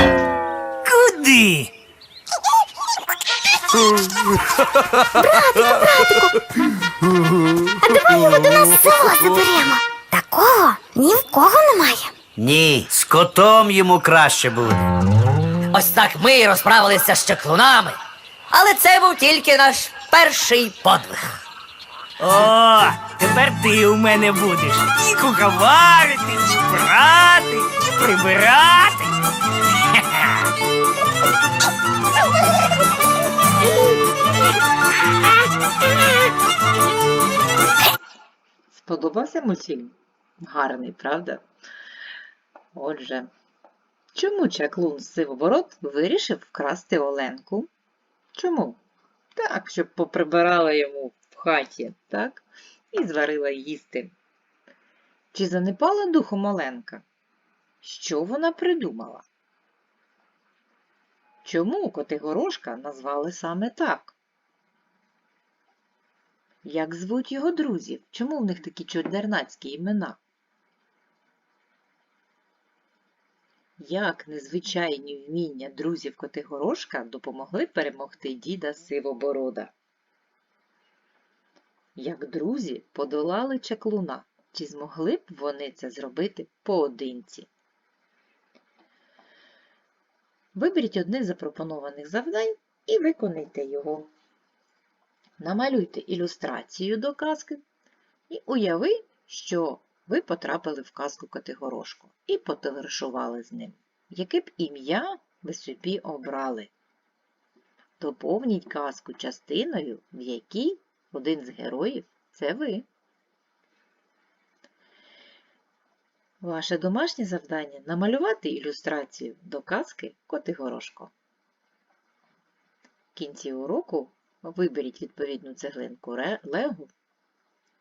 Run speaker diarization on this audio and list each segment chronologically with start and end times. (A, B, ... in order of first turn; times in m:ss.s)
0:00.8-0:01.7 A
0:05.2-0:06.4 B
0:07.8-0:12.1 B
0:12.4-0:14.9 C
0:15.7-0:18.0 D
0:18.5-0:21.4 D
0:22.2-0:29.1 A
0:29.9-0:30.4 A
0:38.7-0:41.4 E
0:42.8-0:43.3 E
0:44.2-0:47.7 E
0:48.3-0:48.8 E
0:49.4-0:54.1 E
0:55.3-0:57.0 E
0:57.8-0:59.2 E
1:01.4-1:04.2 E
1:06.6-1:10.2 E
1:13.8-1:19.7 E
1:22.0-1:27.5 E
1:30.6-1:34.1 E
1:35.4-1:37.6 E
1:38.3-1:46.7 E
1:48.0-1:52.9 E
1:56.4-2:01.1 E
2:03.2-2:06.9 E